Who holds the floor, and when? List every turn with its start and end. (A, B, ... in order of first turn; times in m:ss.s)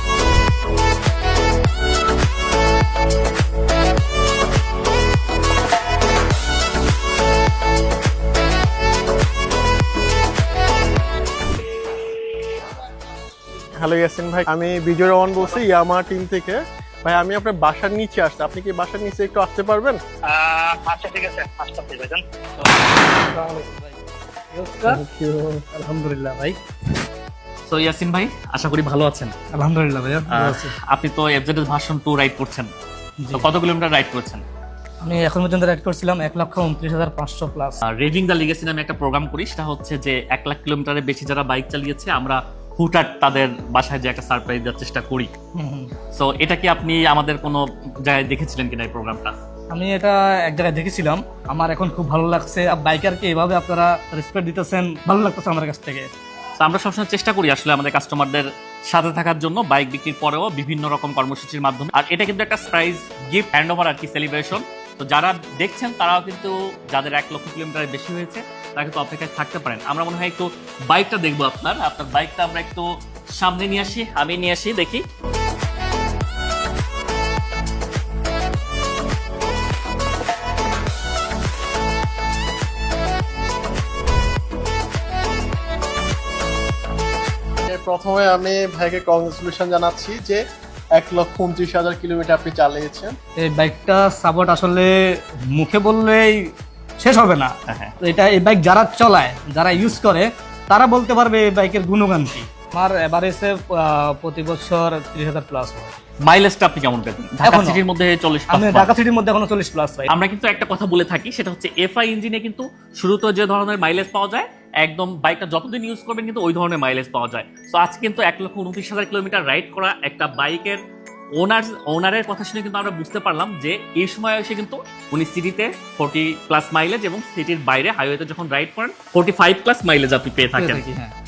0:13.7-0:20.0 A
0:20.2-0:22.2 B
0:23.0-0:24.0 C
0:24.5-0:26.6 C
0:27.7-0:29.3 D
0:29.6-0:30.7 C
0:30.3-0:32.7 D
0:33.2-0:33.5 C
0:33.3-0:34.4 D
0:35.0-0:37.8 C
0:37.8-0:45.3 D
0:45.6-0:45.9 C
0:46.1-0:49.3 D
0:49.7-0:56.1 C
0:56.6-1:15.0 D
1:27.7-1:30.4 A
1:31.0-1:33.2 A
1:33.4-1:34.9 C
1:35.5-1:46.0 C
1:37.7-1:38.0 D
1:46.2-1:48.9 D
1:47.4-1:47.8 C
1:48.5-1:50.1 C
1:50.1-2:00.8 D
2:01.4-2:10.9 D
2:10.5-2:11.1 C